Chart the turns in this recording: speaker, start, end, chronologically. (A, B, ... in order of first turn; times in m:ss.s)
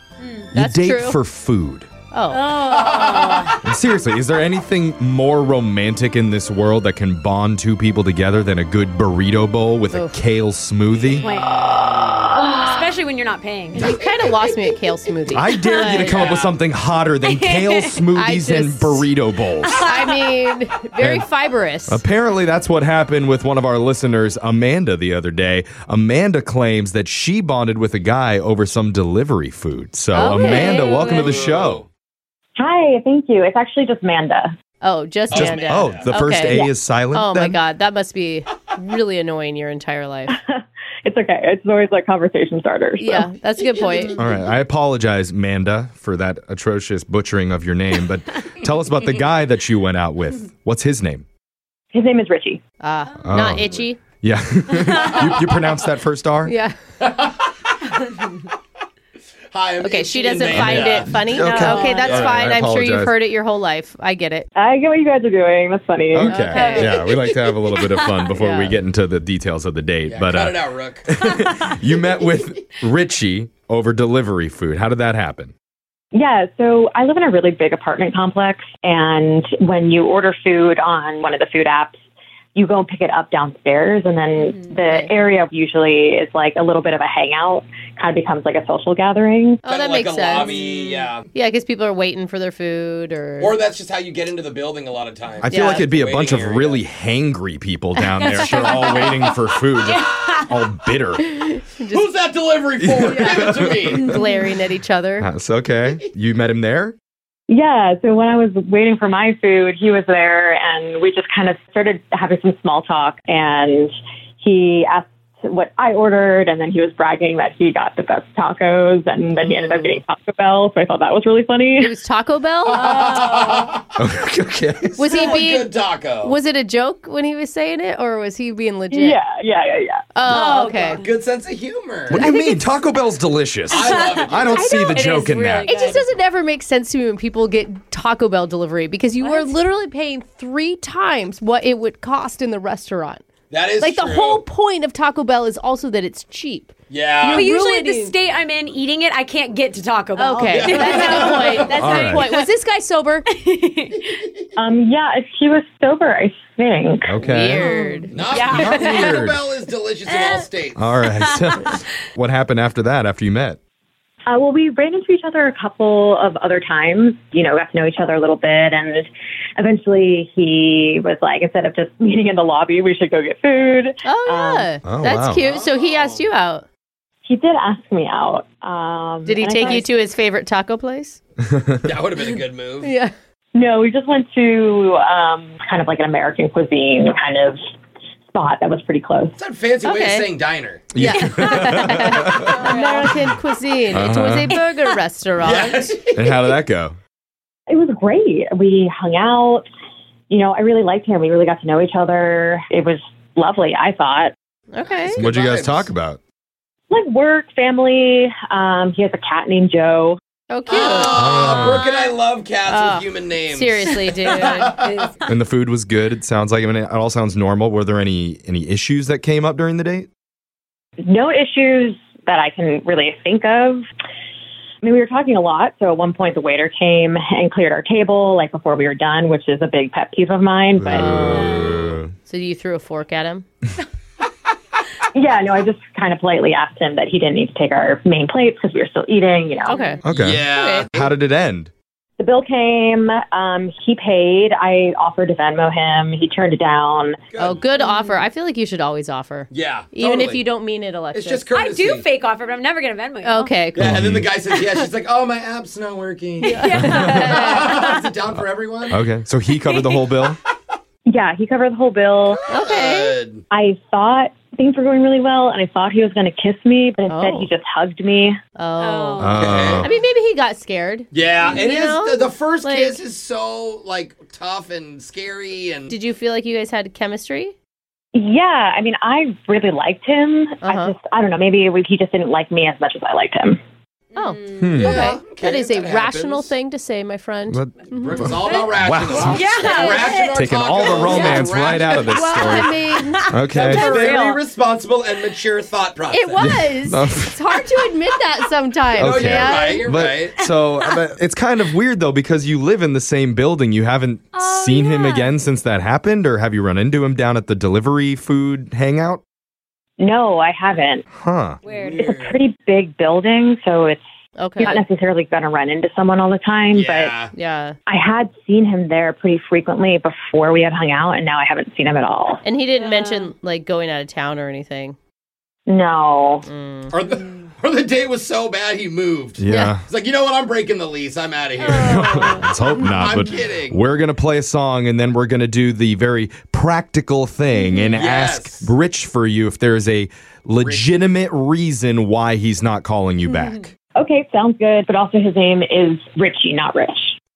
0:00.2-0:00.5 A
0:00.5-0:01.9 B
0:00.5-0:01.2 C
0:02.1-0:02.5 C
0:02.3-0:03.6 A
0:02.5-0:03.6 D
0:03.6-0:11.3 B
0:09.9-0:10.2 C
0:11.1-0:11.4 D
0:11.2-0:14.0 A
0:13.8-0:16.2 C
0:15.3-0:19.8 B
0:15.5-0:16.3 A
0:16.1-0:16.5 D
0:17.2-0:18.1 A
0:18.1-0:19.1 C
0:19.6-0:20.3 A
0:19.8-0:22.0 C
0:21.0-0:21.3 B
0:21.9-0:31.8 B
0:30.1-0:30.9 C
0:30.2-0:31.3 A
0:30.6-0:31.8 D
0:32.6-0:34.5 E
0:34.8-0:40.4 C
0:35.3-0:36.1 D
0:35.3-0:37.6 B
0:36.4-0:36.7 E
0:40.3-0:43.3 E
0:43.0-0:44.2 C
0:44.1-0:51.2 B
0:51.9-0:52.6 E
0:52.8-0:54.1 C
0:53.2-0:56.5 B
0:55.0-0:55.5 D
0:56.4-0:56.8 C
0:57.0-0:57.5 D
0:59.5-1:02.6 D
0:59.8-1:04.5 C
1:00.5-1:03.1 B
1:01.4-1:02.0 E
1:01.5-1:01.9 A
1:04.6-1:06.9 E
1:06.1-1:15.5 B
1:06.2-1:07.0 C
1:06.5-1:08.3 A
1:08.3-1:08.8 C
1:10.0-1:11.2 D
1:11.2-1:12.1 A
1:16.1-1:22.0 E
1:22.5-1:29.6 E
1:24.3-1:24.8 A
1:24.8-1:25.1 C
1:29.6-1:33.6 C
1:29.7-1:31.3 D
1:33.4-1:36.8 D
1:35.4-1:41.2 B
1:35.5-1:35.9 C
1:38.0-1:40.6 A
1:41.2-1:42.1 C
1:41.8-1:44.1 D
1:42.8-1:44.2 B
1:43.1-1:45.3 C
1:44.1-1:44.3 A
1:45.2-1:46.9 B
1:47.5-2:02.0 E
2:01.8-2:02.9 C
2:02.6-2:03.8 D
2:02.7-2:03.7 A
2:04.0-2:05.1 B
2:05.0-2:09.2 C
2:05.0-2:06.4 D
2:08.9-2:10.0 E
2:10.1-2:11.0 C
2:10.2-2:11.1 A
2:10.9-2:12.3 D
2:12.1-2:15.9 B
2:12.2-2:12.7 C
2:13.7-2:14.8 D
2:13.7-2:16.1 A
2:14.6-2:15.0 C
2:15.6-2:28.1 C
2:19.2-2:19.6 A
2:23.5-2:24.4 D
2:26.9-2:27.5 D
2:27.2-2:32.5 A
2:30.1-2:33.3 C
2:30.4-2:31.9 D
2:31.7-2:32.3 B
2:33.3-2:34.2 A
2:34.6-2:37.2 E
2:37.1-2:37.7 B
2:37.2-2:38.2 C
2:37.4-2:39.3 A
2:38.1-2:41.0 D
2:38.2-2:39.4 B
2:40.1-2:40.5 A
2:40.8-2:43.6 B
2:41.0-2:41.8 A
2:44.3-2:54.7 E
2:54.0-2:56.6 C
2:54.8-2:55.4 B
2:55.3-2:56.3 D
2:57.2-2:59.9 E
2:59.2-3:01.2 C
3:01.4-3:01.8 B
3:01.8-3:02.9 D
3:02.8-3:03.1 C
3:03.5-3:07.6 E
3:08.3-3:09.4 E
3:09.4-3:11.1 D
3:09.8-3:10.3 C
3:10.9-3:12.5 B
3:11.0-3:13.3 A
3:11.2-3:15.9 C
3:13.9-3:14.6 B
3:15.4-3:16.5 D
3:16.1-3:17.0 B
3:17.7-3:19.6 E
3:20.3-3:24.3 E
3:24.7-3:25.2 C
3:24.8-3:25.9 D
3:25.1-3:26.2 B
3:26.9-3:30.2 E
3:30.5-3:31.2 C
3:30.7-3:35.1 D
3:31.0-3:31.8 B
3:32.6-3:34.7 C
3:34.3-3:35.2 A
3:35.2-3:40.1 B
3:41.0-3:43.8 E
3:44.8-3:51.7 E
3:50.8-3:52.1 B
3:50.9-3:51.4 C
3:51.3-3:51.8 A
3:52.1-3:53.5 C
3:55.1-3:59.9 E
3:59.6-4:00.9 C
4:00.0-4:01.7 B
4:00.1-4:01.1 D
4:02.2-4:07.2 E
4:07.3-4:07.8 D
4:07.4-4:11.5 C
4:07.7-4:08.2 A
4:09.5-4:10.4 D
4:11.1-4:12.1 D
4:11.5-4:13.6 A
4:13.2-4:14.0 C
4:13.7-4:19.0 D
4:13.8-4:14.3 B
4:16.4-4:18.2 A
4:16.5-4:17.6 C
4:16.9-4:17.2 B
4:18.9-4:20.4 B
4:19.5-4:20.1 A
4:21.1-4:22.4 E
4:22.2-4:23.4 D
4:22.5-4:23.2 C
4:23.5-4:28.4 E
4:27.1-4:27.5 C
4:28.6-4:33.0 C
4:28.8-4:29.7 A
4:29.2-4:29.9 B
4:29.3-4:30.0 D
4:31.1-4:36.0 D
4:35.9-4:37.5 C
4:38.1-4:43.6 E
4:40.6-4:40.9 C
4:44.1-4:44.9 A
4:44.2-4:48.5 C
4:44.5-4:45.0 B
4:44.8-4:46.5 D
4:47.5-4:49.6 B
4:47.8-4:52.7 D
4:48.5-4:54.4 A
4:49.7-4:50.1 C
4:50.3-4:52.7 B
4:51.0-4:51.4 C
4:52.0-4:54.1 C
4:53.2-4:53.8 B
4:53.5-4:56.5 D
4:56.1-4:59.8 C
4:56.4-4:57.4 B
4:58.9-5:00.4 D
4:59.0-5:09.2 B
5:04.3-5:05.3 A
5:10.0-5:11.0 E
5:11.1-5:11.6 B
5:11.6-5:12.1 A
5:11.7-5:12.4 D
5:11.9-5:14.0 E
5:14.4-5:14.8 C
5:14.6-5:17.2 E
5:16.7-5:17.3 D
5:17.3-5:17.8 C
5:17.9-5:22.4 E
5:22.4-5:25.0 C
5:22.8-5:23.3 A
5:25.7-5:26.5 E
5:26.4-5:27.0 C
5:26.9-5:32.1 D
5:29.4-5:29.8 B
5:29.4-5:29.7 C
5:31.6-5:32.9 A
5:31.8-5:43.7 B
5:32.8-5:33.8 D
5:37.6-5:37.9 A
5:37.9-5:38.7 D
5:40.6-5:41.0 D
5:43.2-5:43.7 A
5:44.0-5:47.2 E